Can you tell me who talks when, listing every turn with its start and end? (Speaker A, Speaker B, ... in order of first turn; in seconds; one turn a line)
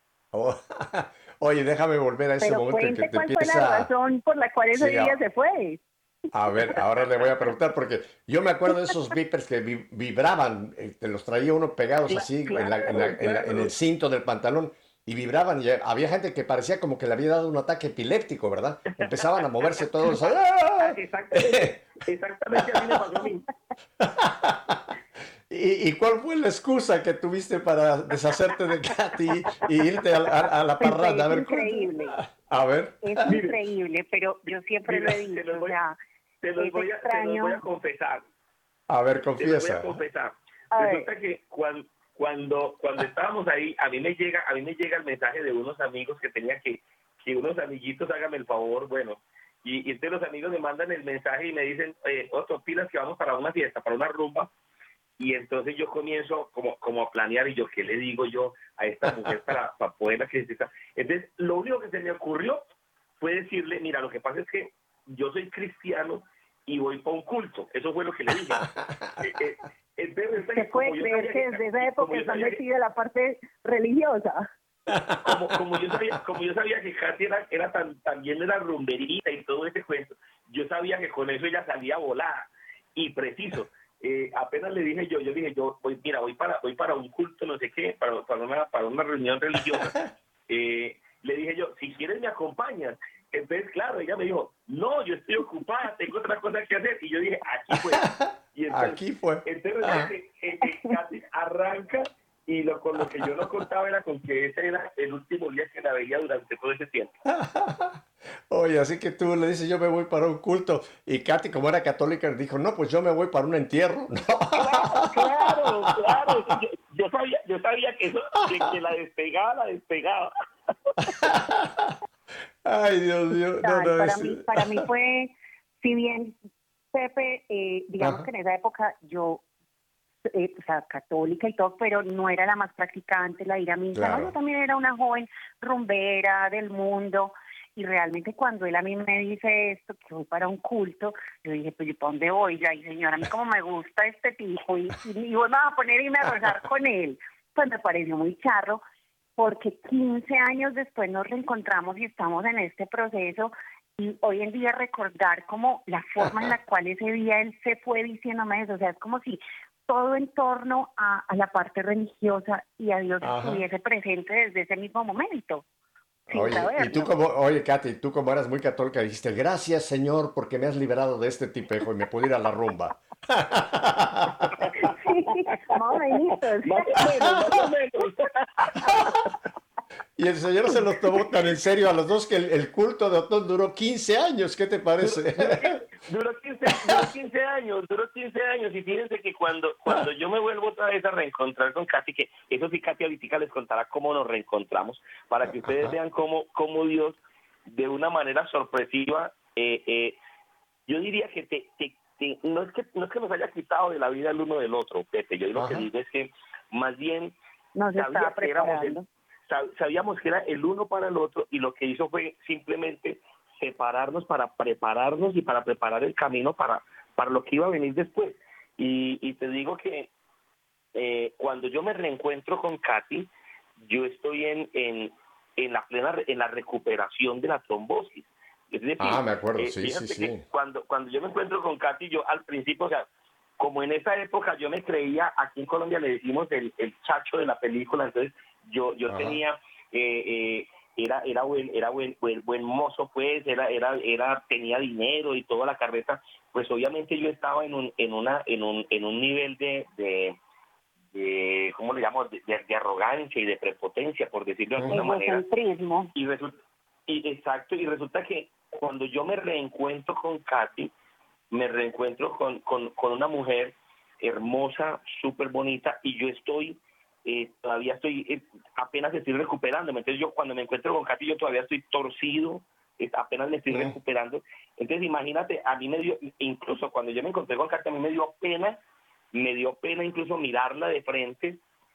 Speaker A: 0.3-3.9
Speaker B: 2.4-5.8
Speaker A: 4.7-5.2
Speaker A: 6.3-21.8
Speaker C: 12.1-13.7
Speaker C: 19.0-19.4
Speaker C: 20.8-23.5
Speaker A: 22.6-23.0
Speaker A: 24.0-24.9
Speaker A: 25.5-33.3
Speaker B: 30.8-32.2
Speaker B: 33.0-36.0
Speaker C: 33.3-33.6
Speaker C: 34.9-35.8
Speaker C: 36.4-38.2
Speaker B: 36.6-37.6
Speaker A: 38.9-40.0
Speaker C: 39.4-54.5
Speaker B: 40.7-41.1
Speaker C: 55.2-62.6
Speaker C: 63.2-68.7
Speaker A: 68.3-69.2
Speaker C: 69.2-72.6
Speaker B: 70.5-74.4
Speaker A: 74.9-76.2
Speaker C: 75.2-107.1
Speaker A: 97.8-100.1
Speaker A: 103.0-103.6
Speaker A: 107.3-116.5
Speaker C: 114.5-120.3
Speaker A: 121.0-122.0
Speaker A: 122.6-124.8
Speaker B: 123.6-126.4
Speaker B: 126.9-129.4
Speaker A: 128.0-128.3
Speaker B: 130.2-148.8
Speaker A: 133.9-134.3
Speaker B: 149.4-165.6
Speaker A: 156.2-156.5
Speaker A: 163.2-163.6
Speaker B: 166.3-167.1
Speaker A: 166.3-174.7
Speaker B: 174.8-177.7
Speaker C: 176.7-179.1
Speaker A: 177.3-177.6
Speaker A: 178.9-179.2
Speaker A: 180.2-185.8
Speaker C: 185.0-200.2
Speaker A: 186.8-187.1
Speaker A: 195.5-195.9
Speaker C: 200.9-207.3
Speaker A: 205.6-205.9
Speaker B: 207.8-209.1
Speaker C: 208.0-220.1
Speaker C: 220.9-233.1
Speaker A: 229.0-230.4
Speaker C: 233.6-250.4
Speaker A: 239.1-239.4
Speaker C: 251.1-255.4
Speaker B: 254.9-256.1
Speaker C: 256.1-256.5
Speaker C: 257.1-260.9
Speaker C: 261.5-278.8
Speaker A: 273.7-274.0
Speaker C: 279.3-281.6